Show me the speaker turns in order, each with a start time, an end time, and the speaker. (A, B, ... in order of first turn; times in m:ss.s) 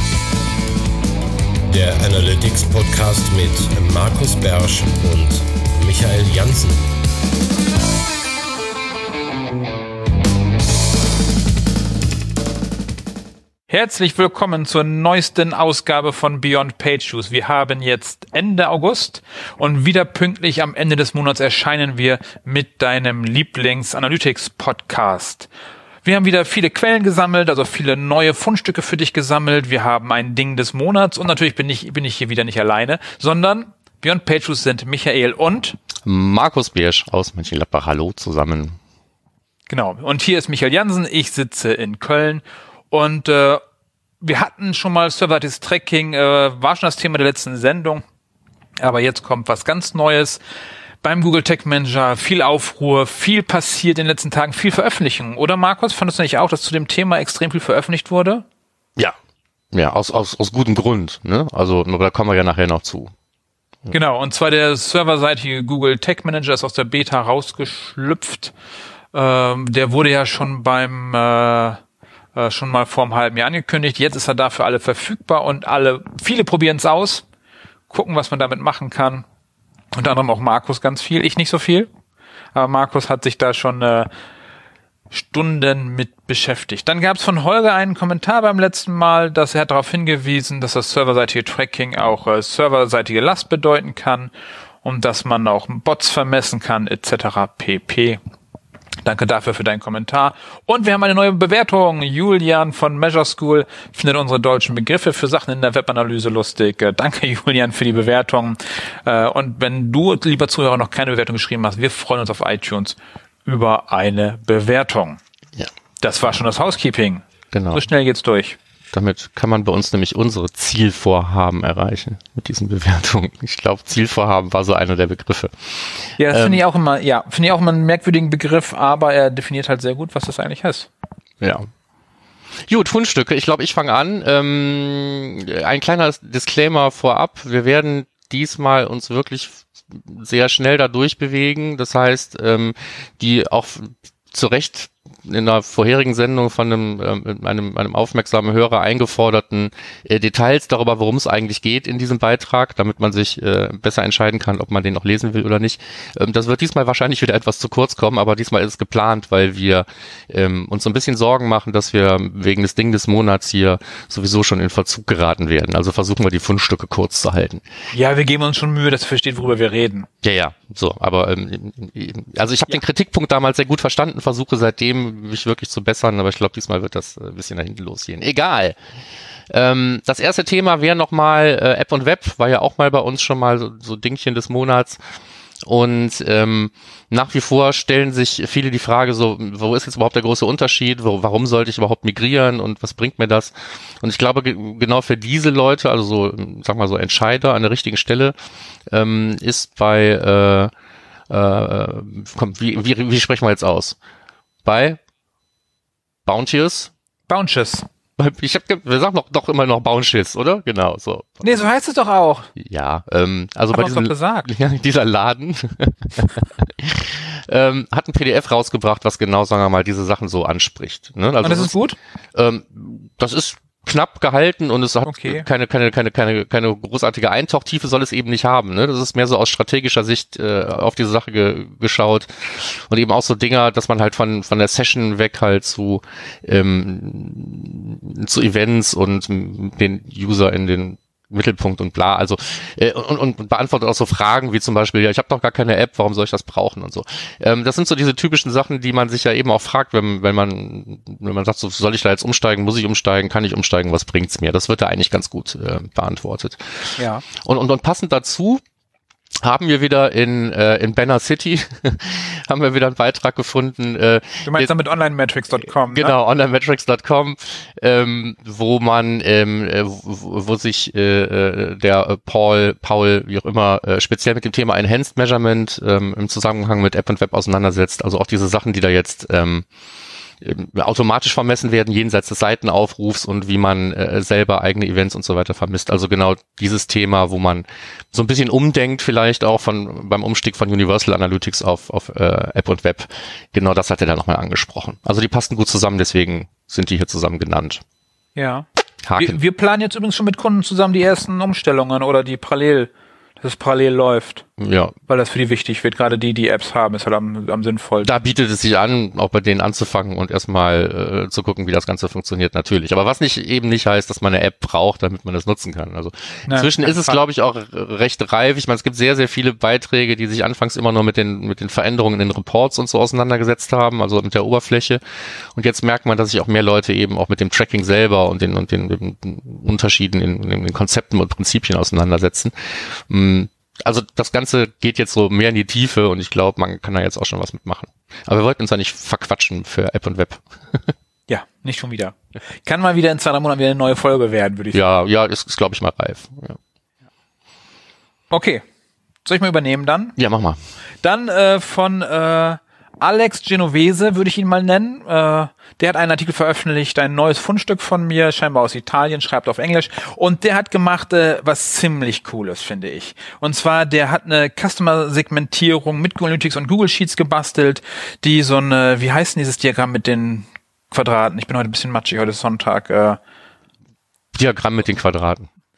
0:01.7-0:06.9 A
0:13.7-0:25.5 B
0:26.0-0:35.8 B
0:36.0-0:38.8 C
0:39.7-0:43.6 B
0:44.2-0:48.0 B
0:48.8-0:50.4 B
0:51.0-0:58.4 B
0:59.7-1:03.1 C
1:03.9-1:08.5 B
1:09.1-1:11.8 B
1:12.4-1:17.2 B
1:17.9-1:19.2 B
1:19.9-1:21.9 B
1:22.6-1:24.1 B
1:25.1-1:34.3 B
1:34.8-1:38.2 B
1:39.0-1:55.2 B
1:56.0-1:58.6 B
1:57.5-1:57.9 C
1:58.9-2:06.6 C
2:06.2-2:10.9 B
2:11.4-2:11.7 C
2:12.7-2:47.6 C
2:47.9-2:50.1 B
2:50.2-2:58.8 C
2:59.5-3:05.0 C
3:05.6-3:18.4 C
3:18.9-3:20.7 C
3:21.3-3:24.0 C
3:24.6-3:25.0 C
3:26.3-3:26.9 C
3:27.3-3:27.9 B
3:28.2-3:31.6 C
3:31.4-3:32.5 B
3:32.6-3:41.7 C
3:33.7-3:34.5 B
3:41.4-3:42.0 B
3:42.3-4:18.6 C
3:45.0-3:45.5 B
4:17.0-4:17.2 B
4:19.4-4:24.7 C
4:24.4-4:26.2 B
4:25.8-4:39.7 C
4:40.4-4:57.8 C
4:58.4-5:04.4 B
4:59.0-4:59.4 C
5:04.6-5:04.9 C
5:05.1-5:08.1 B
5:08.0-5:25.0 C
5:16.5-5:17.2 B
5:25.6-5:40.9 C
5:41.3-5:44.8 B
5:44.7-5:46.6 C
5:48.3-5:48.6 B
5:49.2-5:50.2 B
5:50.2-5:50.6 C
5:51.0-6:13.2 B
6:14.4-6:15.5 C